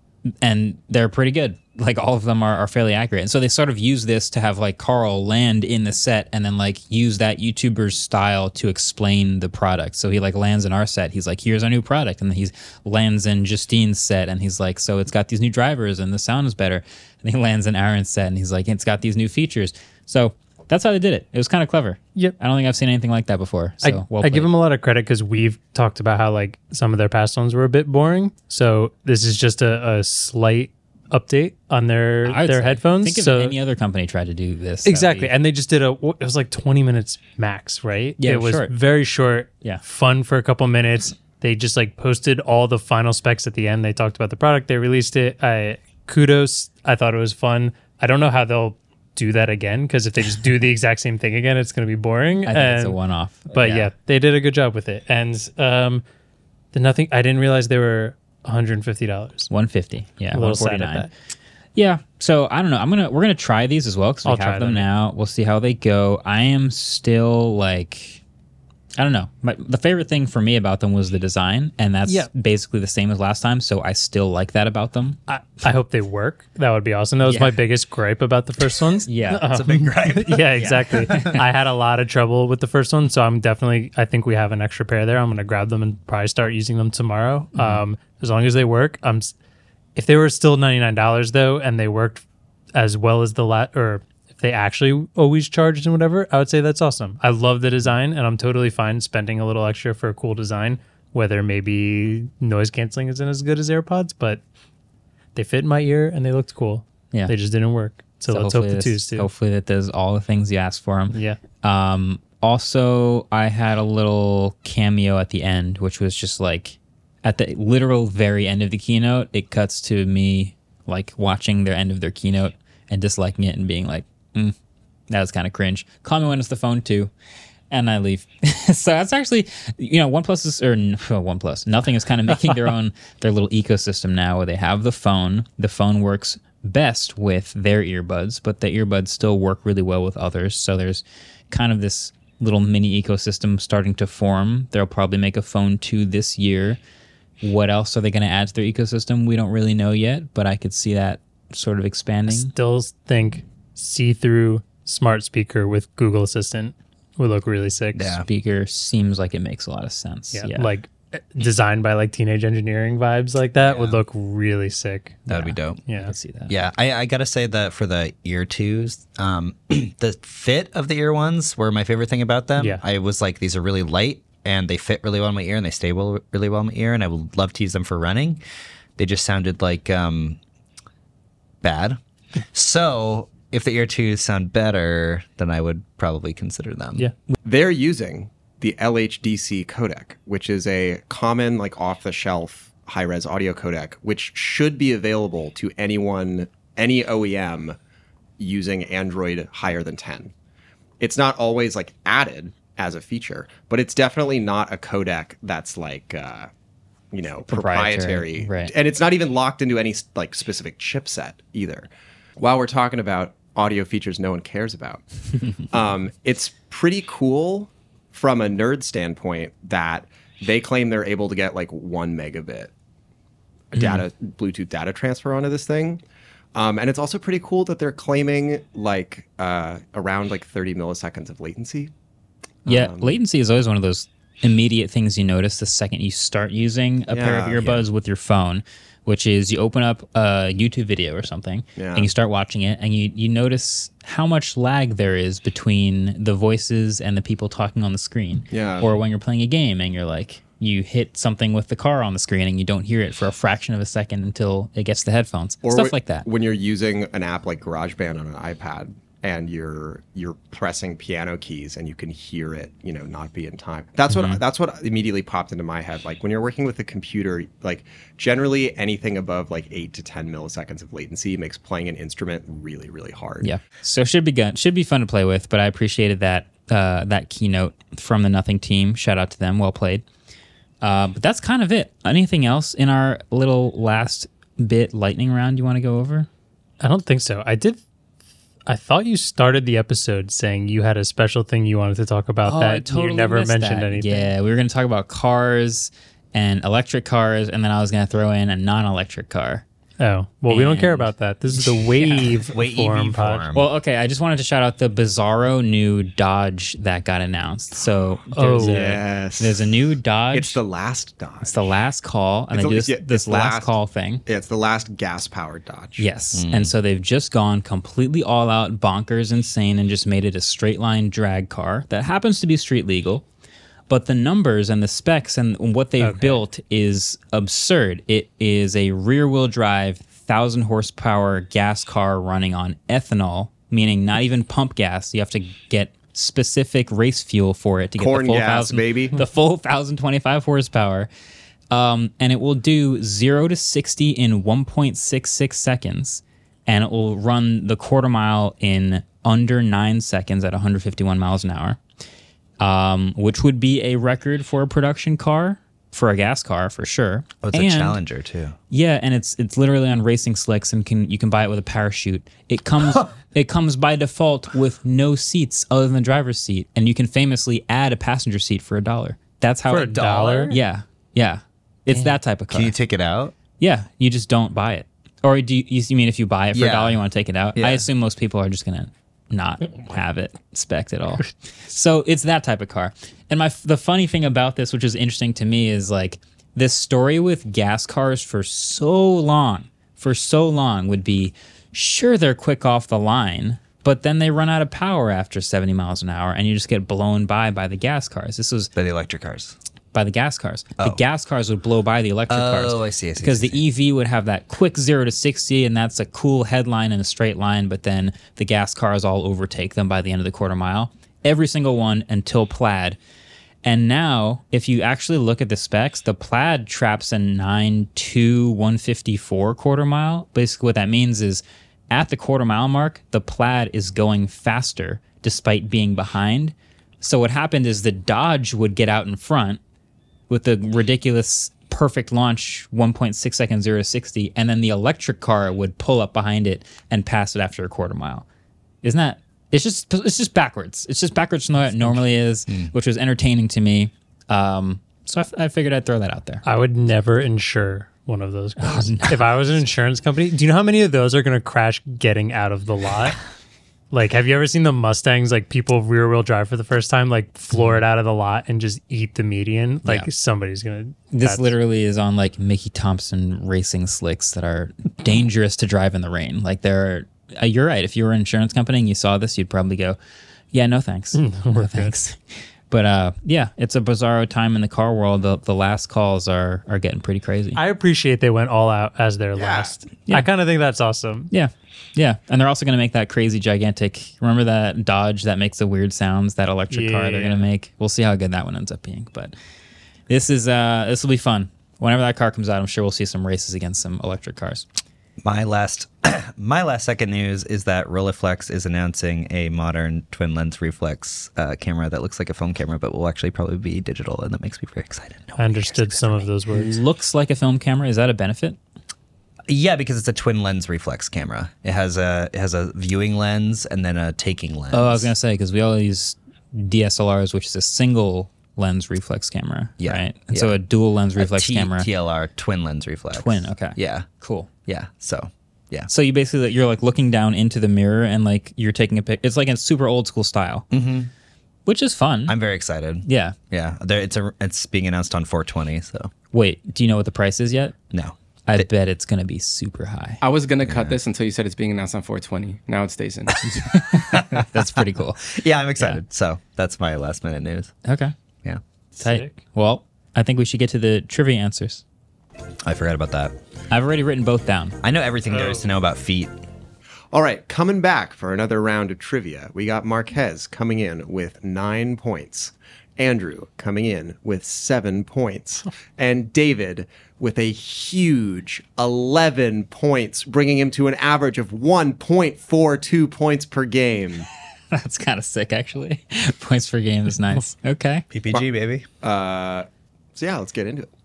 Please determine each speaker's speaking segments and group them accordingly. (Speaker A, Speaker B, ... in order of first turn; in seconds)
Speaker A: 0.4-24.5, 32.2-35.3, 38.2-38.7, 52.5-53.9, 59.5-61.1, 61.8-68.2, 69.0-75.2, 77.2-77.6, 79.0-79.5, 80.5-81.4, 87.5-87.8, 108.3-124.5, 125.1-127.1, 127.7-146.8, 147.4-152.5, 158.2-160.7, 163.6-164.0, 165.3-166.5, 207.5-208.7, 223.8-224.0, 232.7-256.3, 264.1-264.4, 273.4-280.0, 280.8-286.3, 292.4-299.6, 300.5-301.1, 301.7-302.4, 303.5-310.6, 311.4-314.2, 316.0-323.2, 323.9-341.1, 341.7-351.8, 352.6-358.0, 358.7-372.7, 373.6-398.7, 399.9-413.0, 413.6-429.6, 430.3-438.2, 438.8-446.4, 448.6-449.7, 457.5-457.8, 461.1-470.0, 470.5-472.2, 472.7-477.6, 481.3-489.3, 490.1-494.6, 506.5-508.6, 514.7-521.9, 523.1-524.5, 525.9-530.7, 531.6-532.4, 533.0-533.3, 536.3-537.7, 538.5-540.2, 543.5-546.0, 547.8-548.1, 549.0-551.8, 553.7-554.8, 574.7-578.0
Speaker B: 23.8-33.5, 34.8-53.0, 53.5-56.0, 56.7-59.5, 60.3-61.1, 64.2-64.9, 75.3-89.3, 89.9-92.2, 92.7-104.4, 105.3-109.3, 111.1-111.4, 152.3-158.2, 160.3-165.3, 165.9-166.1, 172.6-172.8, 286.8-287.8, 288.7-294.3, 300.0-303.4, 308.3-308.8, 326.0-326.4, 369.7-370.6, 446.4-453.2, 453.9-461.5, 471.1-471.9, 477.6-481.3, 486.7-487.5, 505.4-506.8, 549.0-549.3, 555.3-555.7
Speaker C: 79.4-81.4, 157.9-158.2, 165.3-165.8, 166.5-178.4, 179.0-180.4, 181.6-182.0, 182.5-187.1, 302.5-303.7, 316.3-316.7, 357.4-358.6, 369.9-370.6, 371.9-373.3, 376.5-377.0, 377.5-377.9, 398.7-399.6, 402.3-403.6, 495.2-506.3, 509.5-515.1, 519.8-520.6, 521.2-524.1, 524.6-525.9, 530.7-531.1, 532.3-536.1, 537.9-538.7, 540.6-541.0, 543.9-547.7, 552.6-553.3, 554.8-556.3, 578.1-578.9
Speaker D: 187.4-197.8, 198.4-200.3, 201.0-206.5, 207.1-215.0, 215.7-222.7, 223.7-226.0, 226.5-231.9, 232.6-233.2, 237.1-237.8, 241.8-242.1, 248.5-248.9, 255.6-273.5, 308.6-309.7, 310.3-311.7, 312.5-316.1, 338.0-339.2, 479.3-479.7, 557.1-574.3, 579.0-580.9
Speaker E: 540.2-543.5